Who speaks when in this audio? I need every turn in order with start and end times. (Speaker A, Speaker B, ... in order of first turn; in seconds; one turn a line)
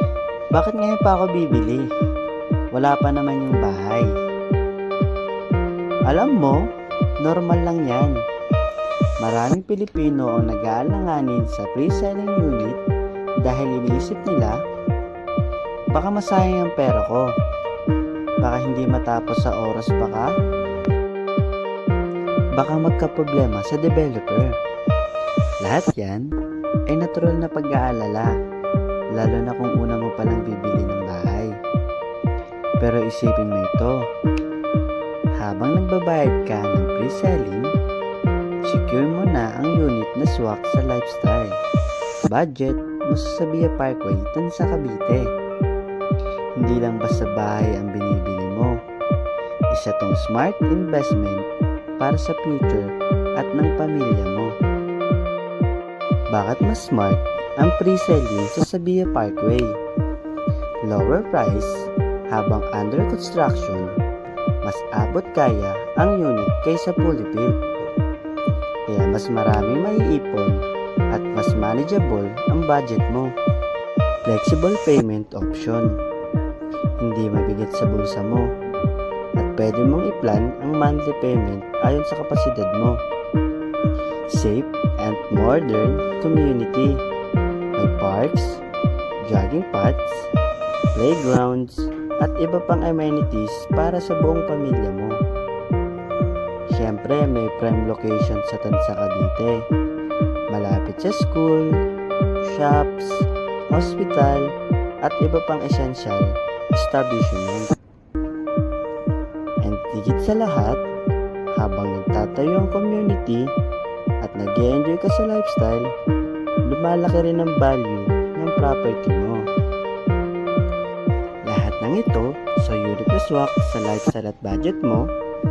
Speaker A: 0.5-1.9
Speaker A: 2.7-4.1
Speaker A: 6.0-6.7
Speaker A: 7.2-8.2
Speaker A: 9.2-12.8
Speaker A: 13.4-14.6
Speaker A: 15.9-17.3
Speaker A: 18.4-20.3
Speaker A: 22.5-24.5
Speaker A: 25.6-26.2
Speaker A: 26.9-28.3
Speaker A: 29.1-31.5
Speaker A: 32.8-33.9
Speaker A: 35.4-37.7
Speaker A: 38.6-41.6
Speaker A: 42.2-45.3
Speaker A: 46.6-48.8
Speaker A: 49.7-54.5
Speaker A: 56.3-59.8
Speaker A: 60.8-63.9
Speaker A: 64.6-67.6
Speaker A: 68.9-70.6
Speaker A: 71.1-73.3
Speaker A: 74.2-75.9
Speaker A: 77.0-78.5
Speaker A: 79.4-83.0
Speaker A: 84.3-87.0
Speaker A: 87.8-88.6
Speaker A: 89.3-90.0
Speaker A: 90.9-95.2
Speaker A: 96.7-99.6
Speaker A: 100.5-101.7
Speaker A: 102.4-104.5
Speaker A: 105.0-107.8
Speaker A: 109.6-110.8
Speaker A: 111.5-113.5
Speaker A: 114.2-115.9
Speaker A: 116.7-119.4
Speaker A: 121.4-125.1